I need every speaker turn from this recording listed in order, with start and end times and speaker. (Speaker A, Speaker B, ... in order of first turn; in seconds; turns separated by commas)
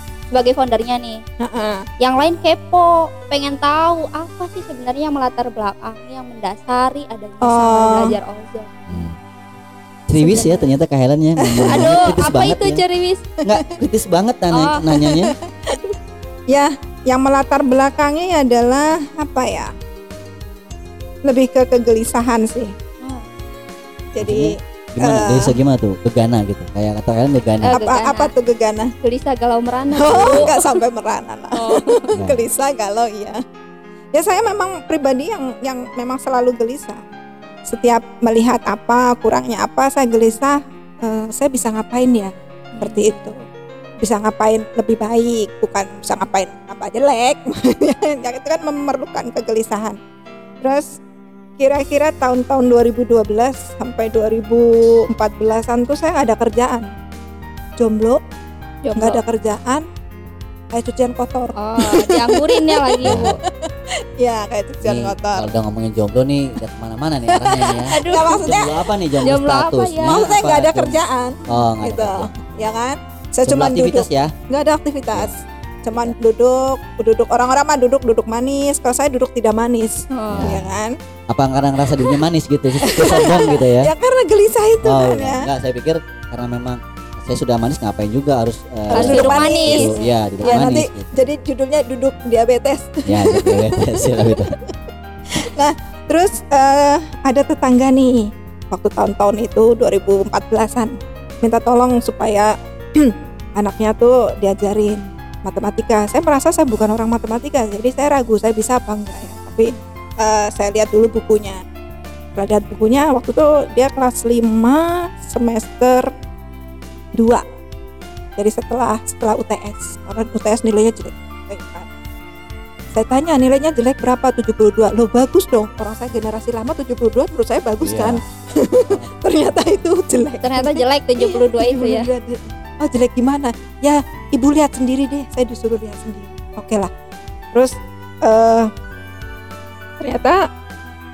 Speaker A: 0.3-1.2, Speaker B: 1.4-1.8, Speaker A: 2.0-8.7, Speaker B: 7.4-8.2, Speaker C: 8.9-9.2, Speaker C: 10.1-12.8, Speaker B: 10.2-10.5, Speaker A: 10.3-10.5, Speaker B: 11.4-12.2, Speaker A: 11.7-13.2, Speaker C: 13.4-15.3, Speaker A: 14.5-14.8, Speaker B: 15.0-15.9, Speaker B: 16.5-19.7, Speaker B: 21.2-22.7, Speaker B: 24.1-25.5, Speaker C: 24.2-27.8, Speaker A: 27.6-28.3, Speaker B: 27.6-28.9, Speaker A: 29.0-30.5, Speaker B: 29.9-33.4, Speaker A: 31.5-32.1, Speaker C: 32.1-32.4, Speaker B: 34.1-37.0, Speaker B: 37.7-43.4, Speaker A: 42.7-43.2, Speaker B: 44.0-50.0, Speaker B: 50.6-50.9, Speaker B: 51.6-56.8, Speaker B: 57.8-58.2, Speaker A: 58.8-59.2, Speaker B: 59.0-59.8, Speaker B: 60.7-65.5, Speaker A: 61.5-63.4, Speaker C: 63.0-63.4, Speaker C: 64.8-72.7, Speaker B: 67.3-68.9, Speaker A: 67.9-68.5, Speaker A: 69.2-70.4, Speaker B: 70.0-80.9, Speaker C: 73.4-74.3, Speaker C: 75.9-76.1, Speaker A: 80.1-80.6, Speaker C: 80.3-80.8, Speaker C: 81.3-83.9, Speaker B: 81.9-82.2, Speaker B: 82.8-85.5, Speaker C: 84.8-91.1, Speaker B: 88.9-94.7, Speaker A: 88.9-89.9, Speaker A: 90.4-90.7, Speaker C: 93.0-94.5, Speaker B: 95.4-111.6, Speaker B: 112.3-116.1, Speaker B: 117.1-117.4, Speaker B: 118.4-121.9, Speaker B: 122.9-136.9, Speaker C: 127.8-128.2, Speaker C: 128.8-129.7, Speaker A: 130.4-132.1, Speaker B: 138.2-138.7, Speaker B: 140.0-140.4